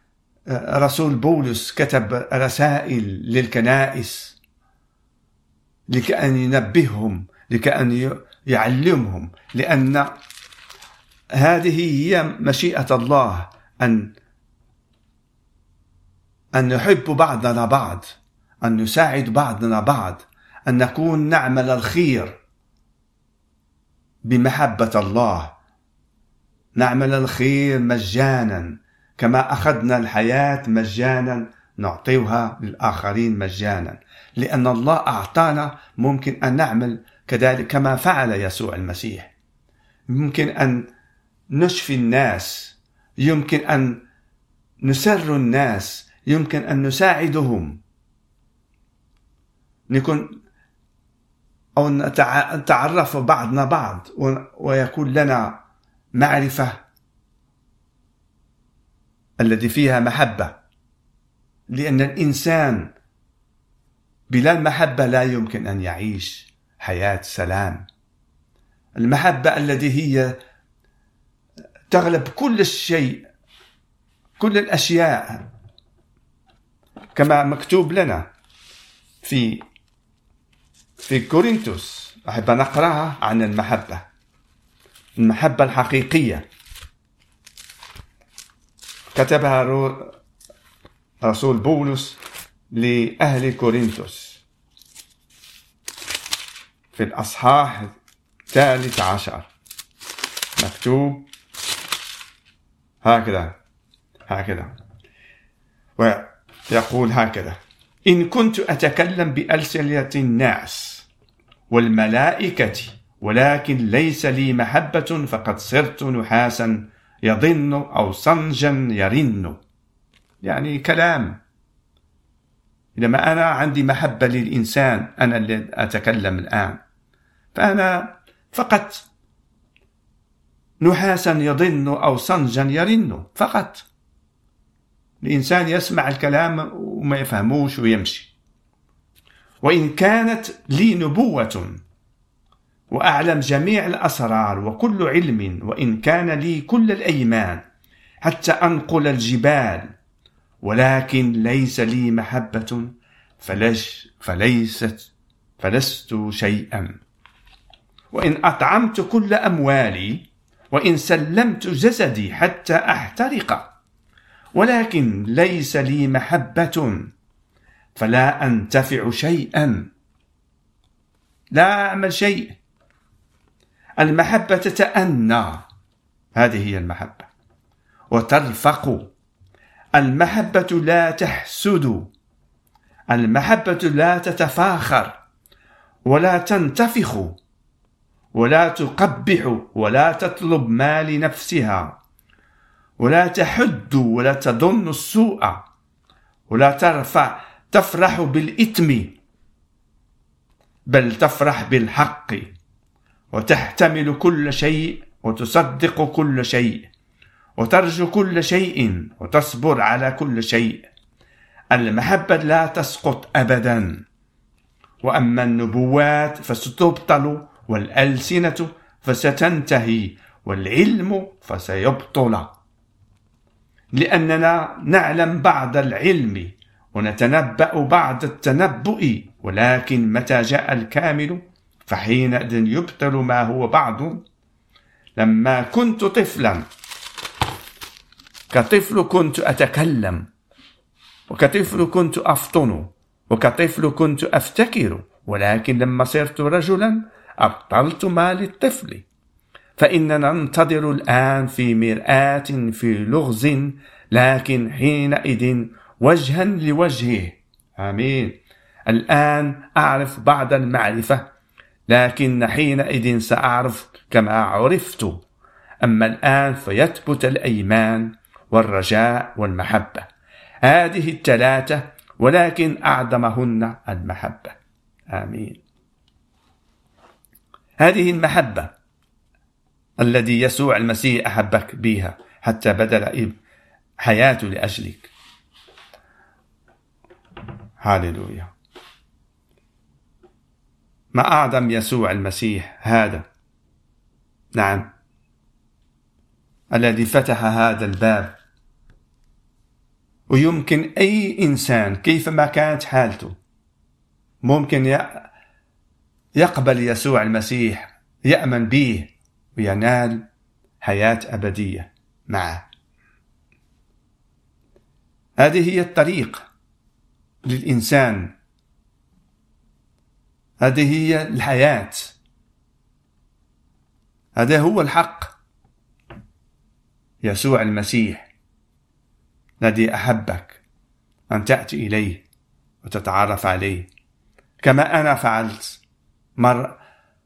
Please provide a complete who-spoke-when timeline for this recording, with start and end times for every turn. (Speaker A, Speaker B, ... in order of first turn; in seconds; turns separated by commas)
Speaker A: 0.5-4.4, Speaker A: 5.9-10.1, Speaker A: 11.3-14.1, Speaker A: 16.5-22.4, Speaker A: 24.2-25.6, Speaker A: 26.8-39.3, Speaker A: 40.1-40.9, Speaker A: 41.5-44.0, Speaker A: 44.8-47.8, Speaker A: 49.9-50.4, Speaker A: 51.8-55.6, Speaker A: 56.1-56.8, Speaker A: 59.4-60.5, Speaker A: 61.7-62.9, Speaker A: 64.3-67.8, Speaker A: 69.0-70.4, Speaker A: 71.9-73.3, Speaker A: 74.4-75.4, Speaker A: 77.2-78.2, Speaker A: 79.2-79.6, Speaker A: 81.0-84.0, Speaker A: 85.2-86.5, Speaker A: 89.2-90.1, Speaker A: 91.2-92.2, Speaker A: 92.7-94.4, Speaker A: 96.9-97.9, Speaker A: 98.5-99.5, Speaker A: 100.6-101.3, Speaker A: 103.0-103.5, Speaker A: 104.3-104.7, Speaker A: 106.0-111.1, Speaker A: 111.7-119.6, Speaker A: 120.4-121.4, Speaker A: 123.0-126.8, Speaker A: 127.5-129.1, Speaker A: 130.8-133.9, Speaker A: 135.2-138.3, Speaker A: 139.6-141.8, Speaker A: 142.9-147.6, Speaker A: 148.2-149.9, Speaker A: 150.6-157.0, Speaker A: 158.1-163.7, Speaker A: 164.6-167.1, Speaker A: 168.0-169.9, Speaker A: 171.5-172.6, Speaker A: 174.0-175.6, Speaker A: 176.4-177.3, Speaker A: 178.1-179.1, Speaker A: 179.9-182.1, Speaker A: 183.1-185.2, Speaker A: 186.1-187.4, Speaker A: 188.3-192.0, Speaker A: 193.0-195.6, Speaker A: 196.5-199.2, Speaker A: 200.9-202.5, Speaker A: 203.3-206.9, Speaker A: 207.6-210.9, Speaker A: 211.7-214.0, Speaker A: 215.0-222.5, Speaker A: 223.9-234.2, Speaker A: 235.2-236.7, Speaker A: 238.5-240.3, Speaker A: 241.3-249.1, Speaker A: 249.8-261.2, Speaker A: 261.9-265.2, Speaker A: 265.8-270.1, Speaker A: 270.6-274.6, Speaker A: 275.1-275.6, Speaker A: 277.8-278.7, Speaker A: 280.0-283.4, Speaker A: 284.0-285.1, Speaker A: 287.8-288.5, Speaker A: 291.1-293.3, Speaker A: 294.6-294.9, Speaker A: 296.7-298.3, Speaker A: 300.3-303.4, Speaker A: 304.4-305.3, Speaker A: 306.4-310.2, Speaker A: 310.8-312.6, Speaker A: 315.4-316.4, Speaker A: 317.4-318.3, Speaker A: 320.6-322.1, Speaker A: 324.4-325.3, Speaker A: 327.2-328.3, Speaker A: 329.6-330.6, Speaker A: 331.3-332.2, Speaker A: 332.8-333.9, Speaker A: 334.6-335.8, Speaker A: 336.4-336.8